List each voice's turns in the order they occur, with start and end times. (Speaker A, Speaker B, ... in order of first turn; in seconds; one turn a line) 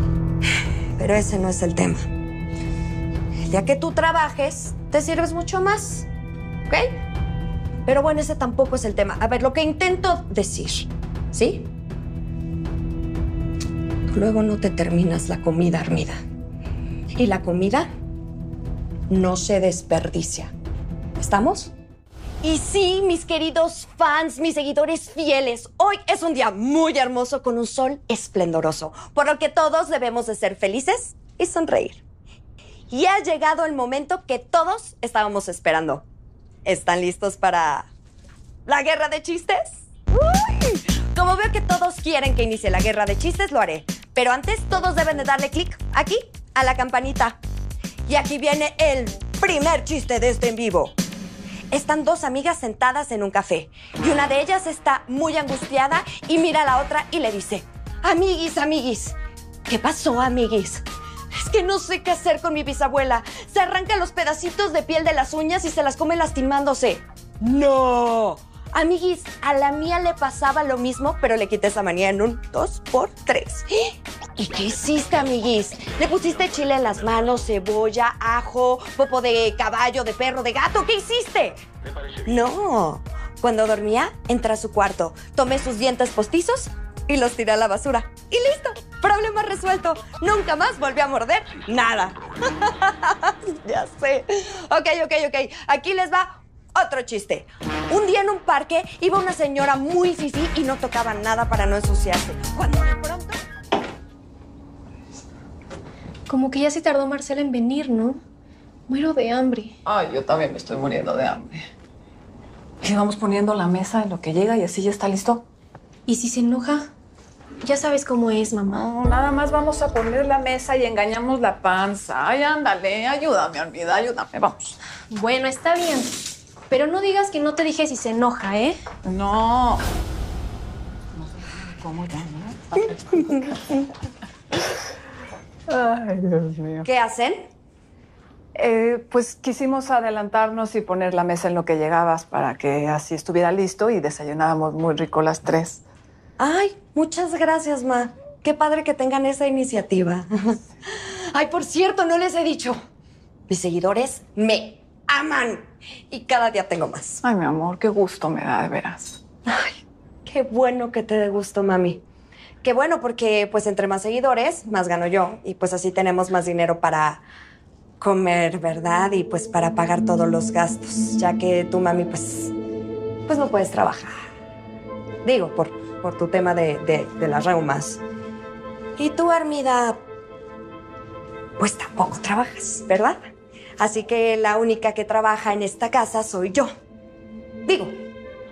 Speaker A: 1.0-2.0
Speaker A: 3.5-6.1
Speaker A: 6.7-6.9
Speaker A: 7.8-11.7
Speaker A: 14.1-16.2
Speaker A: 17.1-17.9
Speaker A: 19.1-20.5
Speaker A: 21.2-21.7
Speaker A: 22.4-32.0
Speaker A: 32.9-36.0
Speaker A: 36.6-37.9
Speaker A: 38.6-47.4
Speaker A: 48.1-51.0
Speaker A: 51.7-59.1
Speaker A: 59.7-81.6
Speaker A: 82.2-103.4
Speaker B: 106.3-108.2
Speaker B: 108.9-109.8
Speaker C: 109.8-111.7
Speaker C: 112.8-115.5
Speaker B: 116.1-116.9
Speaker B: 117.6-118.8
Speaker C: 118.7-124.8
Speaker B: 125.1-126.1
Speaker B: 126.7-128.8
Speaker C: 129.0-129.8
Speaker C: 131.2-133.6
Speaker A: 133.2-133.8
Speaker C: 135.7-136.9
Speaker A: 136.8-137.5
Speaker C: 138.5-145.8
Speaker A: 146.4-152.8
Speaker A: 153.5-157.2
Speaker C: 157.2-159.7
Speaker A: 160.2-162.0
Speaker A: 162.6-167.2
Speaker A: 168.0-172.5
Speaker A: 173.3-174.2
Speaker A: 175.2-178.0
Speaker A: 179.0-180.0
Speaker A: 181.6-183.3
Speaker A: 183.8-186.7
Speaker A: 187.7-188.0